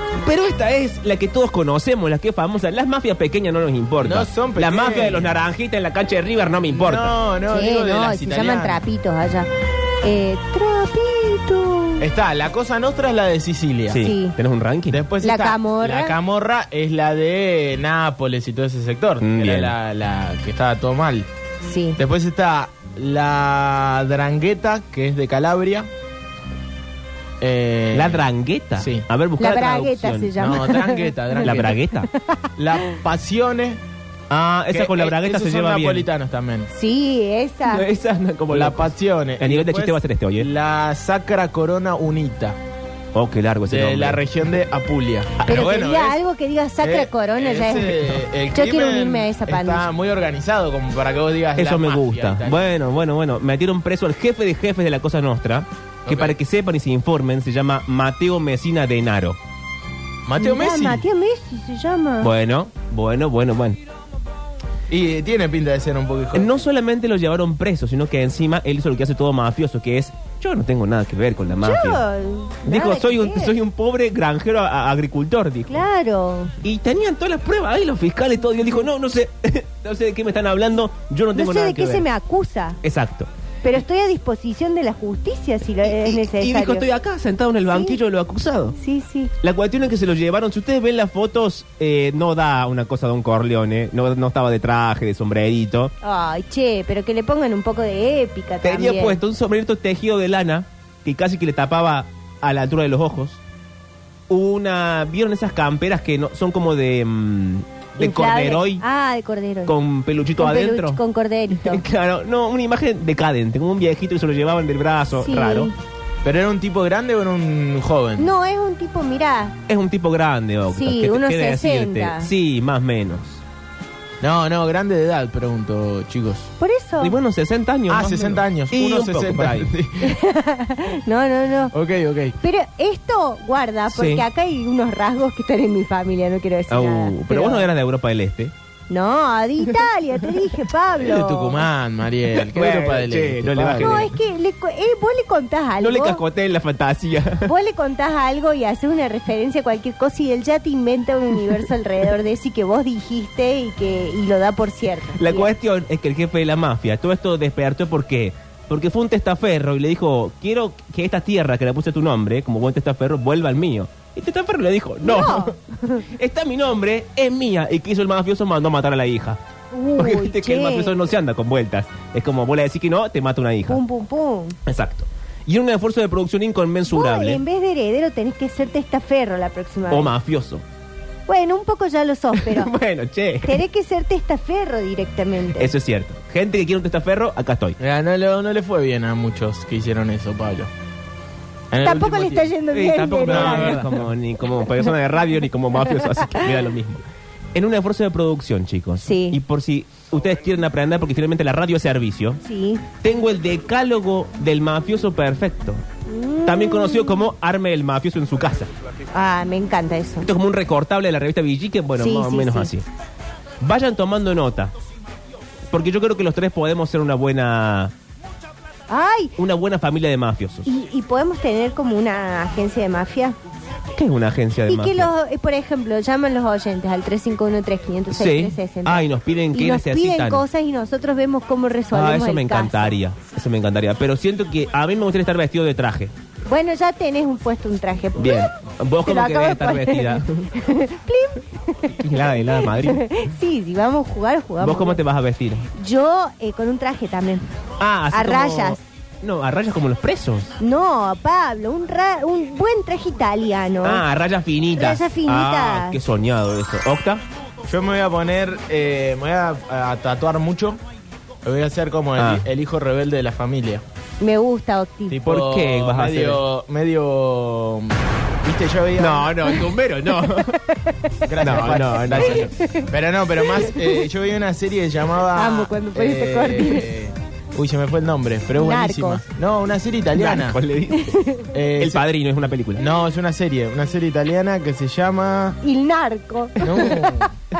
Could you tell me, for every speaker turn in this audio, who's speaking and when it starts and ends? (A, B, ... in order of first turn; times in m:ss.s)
0:00.2-0:07.1 A
0:04.0-0:05.3 B
0:06.7-0:08.8 B
0:07.5-0:09.5 C
0:10.0-0:12.0 C
0:12.0-0:14.0 B
0:13.9-0:15.0 A
0:13.9-0:14.3 C
0:14.9-0:21.3 B
0:15.2-0:16.2 C
0:19.2-0:19.7 A
0:21.6-0:22.0 C
0:22.0-0:25.9 B
0:27.4-0:28.2 B
0:27.9-0:30.6 A
0:28.8-0:29.0 B
0:29.4-0:31.6 C
0:30.4-0:31.8 B
0:31.4-0:32.1 A
0:32.6-0:33.8 B
0:34.3-0:36.1 A
0:34.7-0:36.7 B
0:36.7-0:37.8 C
0:37.7-0:40.5 A
0:38.5-0:42.6 B
0:43.1-0:44.2 A
0:43.7-0:46.2 B
0:45.4-0:45.7 A
0:45.5-0:49.9 C
0:46.8-0:52.7 B
0:51.6-0:59.4 A
0:56.0-0:56.4 B
1:00.2-1:01.0 B
1:00.4-1:02.3 C
1:02.2-1:03.8 A
1:04.9-1:06.5 B
1:06.3-1:12.0 A
1:11.6-1:13.5 C
1:12.6-1:15.8 A
1:15.7-1:16.5 C
1:16.6-1:22.0 A
1:21.3-1:22.8 C
1:22.8-1:23.3 A
1:23.6-1:26.8 C
1:25.8-1:28.8 A
1:27.7-1:28.0 C
1:28.8-1:29.3 C
1:29.4-1:35.9 A
1:36.0-1:39.2 C
1:38.6-1:43.4 A
1:44.3-1:48.8 A
1:48.0-1:49.7 C
1:49.6-1:51.0 A
1:50.4-1:51.8 C
1:51.6-1:55.7 A
1:55.2-1:55.7 C
1:56.2-1:58.3 B
1:58.2-1:59.6 C
1:59.7-2:03.4 A
2:00.7-2:02.3 C
2:04.2-2:06.5 B
2:06.6-2:07.2 C
2:07.0-2:09.7 A
2:07.9-2:10.1 B
2:10.0-2:11.7 C
2:11.7-2:12.4 B
2:12.4-2:17.7 C
2:13.9-2:14.2 A
2:16.7-2:18.5 A
2:18.9-2:21.6 C
2:21.0-2:24.1 B
2:22.3-2:24.1 A
2:23.8-2:26.2 C
2:25.8-2:27.5 A
2:27.4-2:35.5 C
2:35.2-2:49.4 A
2:45.0-2:46.0 C
2:49.7-2:51.0 C
2:50.0-2:53.8 A
2:53.7-2:54.6 C
2:54.6-2:57.4 A
2:56.9-3:00.1 C
2:59.9-3:00.6 A
3:01.3-3:02.7 C
3:02.4-3:03.6 A
3:03.4-3:05.7 C
3:05.5-3:07.8 A
3:07.8-3:10.7 B
3:11.7-3:12.5 B
3:11.8-3:13.8 C
3:12.7-3:22.4 A
3:13.3-3:14.0 B
3:16.2-3:16.4 C
3:19.0-3:19.4 C
3:22.4-3:22.8 C
3:23.0-3:25.8 A
3:26.0-3:27.3 C
3:26.4-3:28.7 A
3:29.1-3:30.3 C
3:30.2-3:32.8 A
3:32.0-3:32.7 C
3:33.6-3:34.7 A
3:35.7-3:37.9 A
3:38.9-3:39.3 C
3:39.4-3:40.7 A
3:40.6-3:43.4 C
3:43.9-3:45.1 A
3:44.7-3:52.9 C
3:48.1-3:50.4 A
3:51.9-3:56.1 A
3:56.5-3:58.5 C
3:58.2-4:00.5 A
3:59.0-4:05.0 C
4:02.0-4:03.0 A
4:04.6-4:05.7 A
4:05.8-4:07.5 C
4:07.8-4:10.6 A
4:08.1-4:08.8 C
4:10.6-4:14.0 C
4:13.8-4:17.2 A
4:14.7-4:16.0 C
4:17.6-4:20.8 B
4:21.4-4:23.8 B
4:22.2-4:22.4 A
4:24.2-4:25.2 C
4:25.1-4:29.4 B
4:25.2-4:26.4 A
4:29.0-4:30.6 A
4:30.7-4:31.1 C
4:31.2-4:40.6 B
4:31.4-4:32.5 A
4:32.2-4:32.8 C
4:35.3-4:36.9 C
4:38.6-4:39.2 C
4:40.1-4:41.2 A
4:41.0-4:41.5 C
4:41.5-4:42.0 B
4:41.8-4:42.9 A
4:42.8-4:45.6 B
4:45.6-4:47.2 C
4:46.6-4:47.3 B